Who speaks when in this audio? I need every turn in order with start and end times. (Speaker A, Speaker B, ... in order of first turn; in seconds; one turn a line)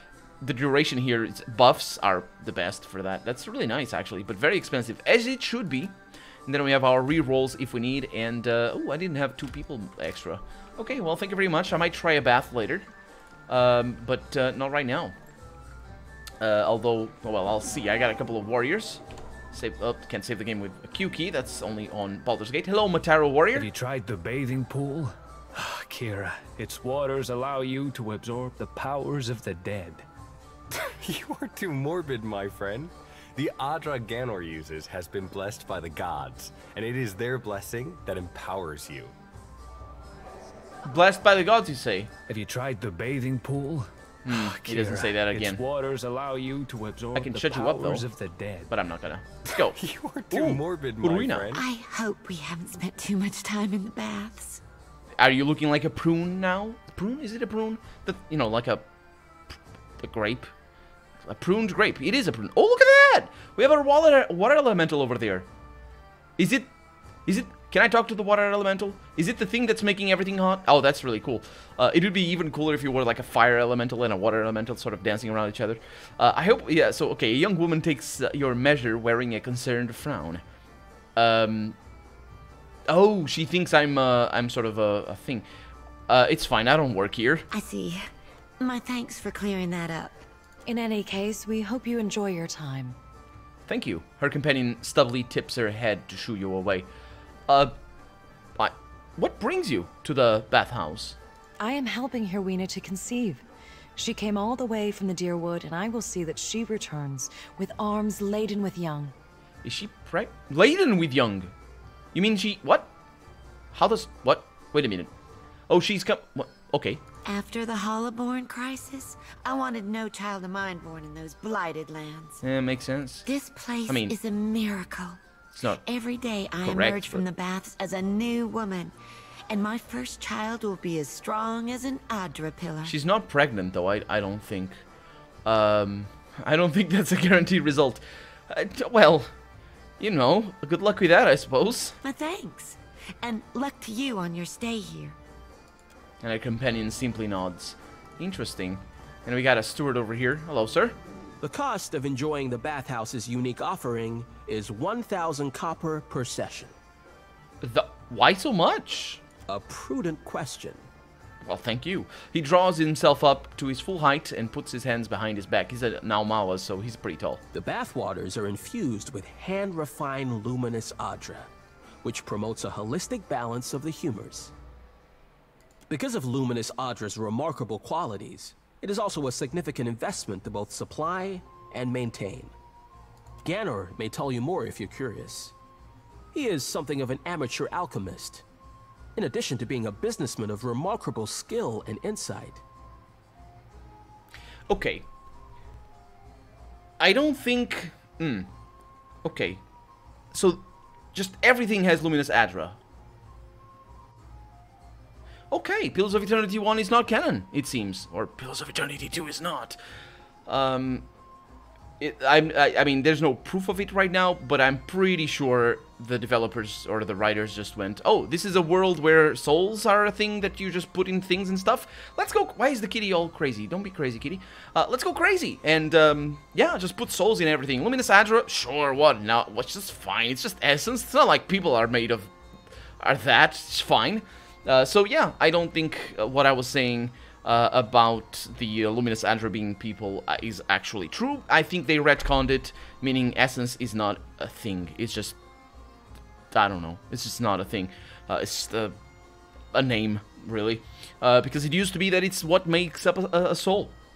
Speaker A: 0.4-5.9
Speaker A: 6.5-12.9
Speaker A: 13.5-15.2
Speaker A: 16.4-23.7
Speaker B: 23.6-30.1
Speaker C: 30.9-39.1
Speaker A: 40.9-42.1
Speaker B: 42.3-48.7
Speaker A: 44.3-45.6
Speaker A: 47.1-48.1
Speaker A: 48.7-49.8
Speaker C: 49.8-51.6
Speaker A: 50.3-51.5
Speaker D: 51.5-54.6
Speaker A: 55.2-58.9
Speaker A: 59.5-60.5
Speaker A: 61.3-65.5
Speaker A: 66.4-66.7
Speaker A: 67.3-80.4
Speaker A: 81.2-81.8
Speaker A: 82.9-85.5
Speaker A: 86.1-87.5
Speaker D: 87.5-88.1
Speaker D: 88.6-90.2
Speaker E: 90.7-93.0
Speaker A: 93.7-96.9
Speaker A: 97.5-97.7
Speaker A: 98.6-101.2
Speaker E: 101.6-103.4
Speaker E: 104.0-109.1
Speaker A: 109.6-111.5
Speaker A: 112.1-112.9
Speaker A: 113.7-115.1
Speaker A: 115.7-117.0
Speaker D: 117.2-122.4
Speaker A: 122.4-123.3
Speaker D: 123.3-128.9
Speaker A: 123.9-124.1
Speaker A: 125.5-125.8
Speaker A: 126.6-127.2
Speaker D: 129.5-132.9
Speaker A: 132.8-134.8
Speaker A: 135.4-139.3
Speaker A: 140.0-142.0
Speaker D: 142.0-145.2
Speaker A: 146.2-151.0
Speaker F: 151.4-156.8
Speaker A: 157.6-159.2
Speaker F: 159.5-160.9
Speaker A: 161.4-167.4
Speaker F: 167.5-171.5
Speaker F: 172.0-174.5
Speaker F: 175.9-182.5
Speaker F: 183.4-185.5
Speaker F: 186.3-188.4
Speaker F: 189.2-192.6
Speaker A: 194.7-195.1
Speaker A: 197.0-198.5
Speaker A: 199.2-199.6
Speaker A: 200.3-202.8
Speaker A: 205.5-209.8
Speaker A: 210.5-211.1
Speaker A: 212.0-232.3
Speaker A: 233.0-245.4
Speaker A: 246.5-249.0
Speaker A: 249.7-253.9